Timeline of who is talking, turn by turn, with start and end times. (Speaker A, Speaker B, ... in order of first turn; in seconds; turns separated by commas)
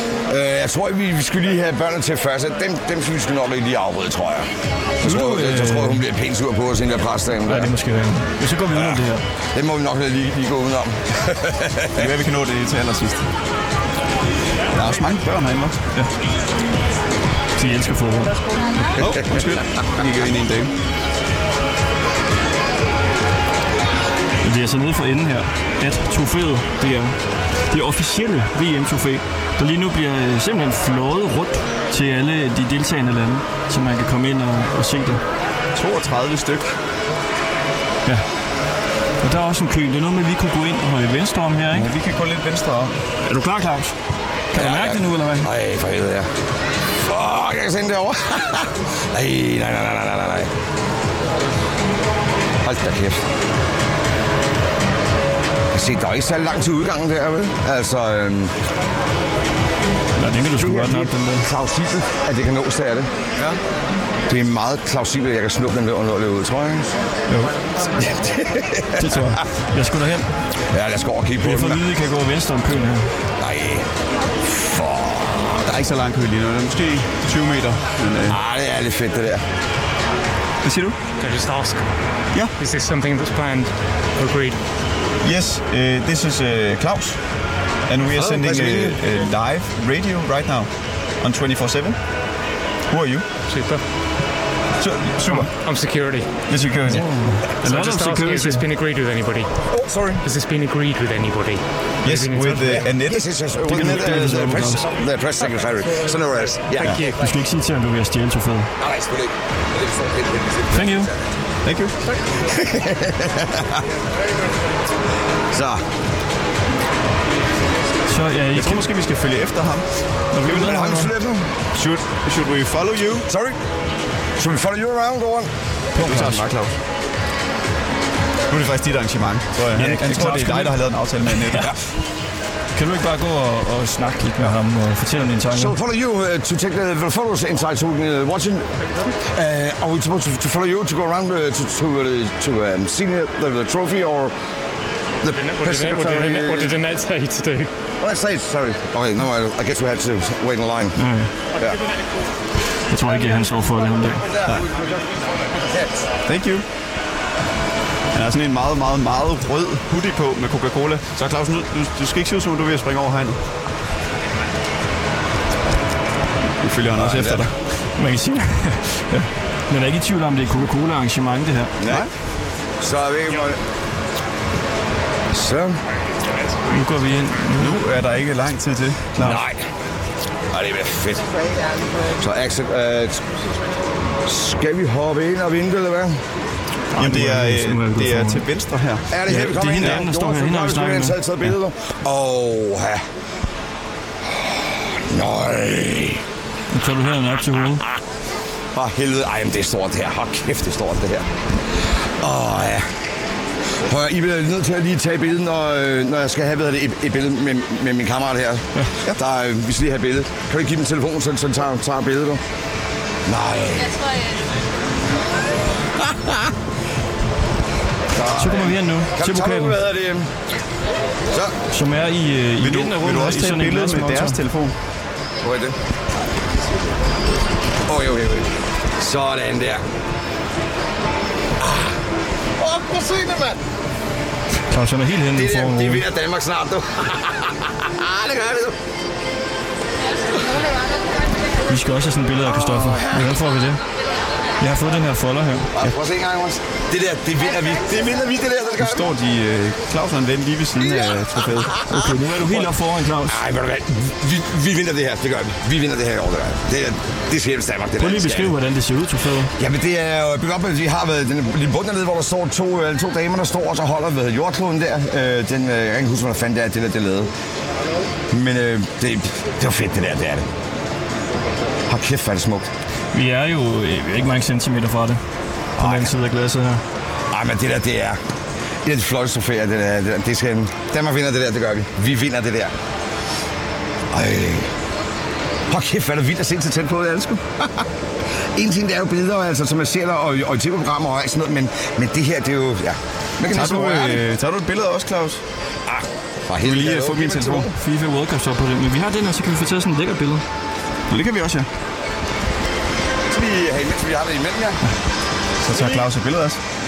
Speaker A: 0.3-4.5, Speaker A: 5.0-7.7, Speaker B: 5.0-6.0, Speaker B: 7.4-9.2, Speaker A: 8.7-12.1, Speaker C: 12.0-13.3, Speaker C: 14.7-15.9, Speaker B: 17.6-19.0, Speaker C: 18.9-20.7, Speaker A: 19.0-19.5, Speaker B: 24.4-27.2, Speaker B: 27.7-35.2, Speaker C: 35.7-36.8, Speaker B: 39.2-41.9, Speaker C: 41.7-42.9, Speaker B: 43.3-43.9, Speaker B: 44.5-45.5, Speaker A: 44.5-46.3, Speaker A: 47.1-50.5, Speaker A: 52.6-53.2, Speaker A: 55.7-58.5, Speaker B: 60.2-61.5, Speaker A: 60.6-63.6, Speaker A: 64.3-66.9, Speaker B: 67.3-67.6, Speaker A: 68.0-69.4, Speaker B: 69.0-70.4, Speaker A: 70.7-71.8, Speaker B: 71.4-73.1, Speaker A: 73.4-73.9, Speaker A: 74.4-75.7, Speaker C: 75.7-78.4, Speaker A: 78.3-79.4, Speaker C: 80.6-81.0, Speaker D: 81.2-81.8, Speaker D: 82.6-84.6, Speaker C: 85.2-87.2, Speaker C: 87.9-90.7, Speaker A: 88.1-89.0, Speaker C: 91.2-92.0, Speaker C: 92.9-93.2, Speaker D: 93.5-93.8, Speaker C: 94.8-95.5, Speaker D: 95.3-96.3, Speaker C: 96.5-97.1, Speaker B: 96.9-98.7, Speaker D: 97.6-99.5, Speaker A: 99.7-100.2, Speaker D: 100.2-102.8, Speaker C: 102.0-104.7, Speaker A: 102.9-107.0, Speaker B: 103.7-104.9, Speaker D: 106.8-107.2, Speaker B: 107.1-108.7, Speaker A: 108.8-111.1, Speaker B: 110.7-111.1, Speaker C: 111.6-112.0, Speaker A: 112.4-113.9, Speaker A: 115.5-115.8, Speaker B: 118.1-118.9, Speaker C: 118.5-119.9, Speaker B: 120.3-121.1, Speaker A: 120.5-121.5, Speaker C: 121.7-123.3, Speaker A: 123.3-123.6, Speaker A: 124.4-125.5, Speaker B: 126.0-126.5, Speaker C: 126.0-126.7, Speaker C: 128.5-131.7, Speaker B: 129.8-131.7, Speaker B: 132.7-135.7, Speaker A: 135.5-138.7, Speaker A: 139.2-144.3, Speaker A: 145.2-146.8, Speaker D: 145.3-147.7, Speaker A: 148.0-151.0, Speaker B: 151.0-151.3, Speaker A: 151.6-151.8, Speaker B: 152.9-154.2, Speaker A: 154.2-156.1, Speaker C: 156.2-156.6, Speaker C: 158.1-163.4, Speaker C: 166.6-167.5, Speaker B: 167.0-171.7, Speaker A: 171.8-172.1, Speaker A: 172.8-173.6, Speaker A: 175.3-175.8, Speaker B: 176.7-177.8, Speaker C: 177.6-179.4, Speaker A: 179.2-179.6, Speaker A: 180.5-183.2, Speaker A: 184.2-186.2, Speaker B: 186.9-188.4, Speaker C: 186.9-189.1, Speaker A: 189.1-193.0, Speaker B: 189.3-191.5, Speaker A: 194.3-196.2, Speaker B: 196.7-197.8, Speaker A: 197.6-198.0, Speaker A: 198.7-201.3, Speaker A: 202.2-202.9, Speaker A: 203.8-212.4, Speaker A: 213.2-214.1, Speaker A: 216.0-216.5, Speaker A: 218.1-220.3, Speaker B: 218.4-219.8, Speaker A: 221.3-221.6, Speaker B: 221.7-224.4, Speaker C: 222.6-224.7, Speaker A: 225.4-225.8, Speaker A: 227.8-229.8, Speaker A: 231.6-232.0, Speaker A: 232.6-233.6, Speaker B: 234.7-236.0, Speaker A: 235.3-238.8, Speaker B: 241.7-243.8, Speaker A: 242.5-243.2, Speaker B: 244.6-245.7, Speaker A: 245.7-249.1, Speaker C: 248.8-251.8, Speaker A: 250.8-252.7, Speaker B: 251.9-253.4, Speaker A: 253.2-258.6, Speaker B: 258.0-259.5, Speaker A: 259.6-267.3, Speaker A: 268.3-270.5, Speaker A: 271.9-272.7, Speaker B: 273.1-275.2, Speaker A: 275.8-276.1, Speaker B: 275.8-276.8, Speaker A: 277.3-278.2, Speaker A: 278.8-282.7, Speaker A: 284.1-284.7, Speaker A: 285.7-287.9, Speaker A: 288.5-294.2, Speaker C: 293.5-295.4, Speaker A: 295.9-297.7, Speaker C: 296.6-297.7, Speaker B: 297.8-300.4, Speaker C: 301.1-301.7, Speaker A: 303.3-304.8, Speaker C: 305.6-306.6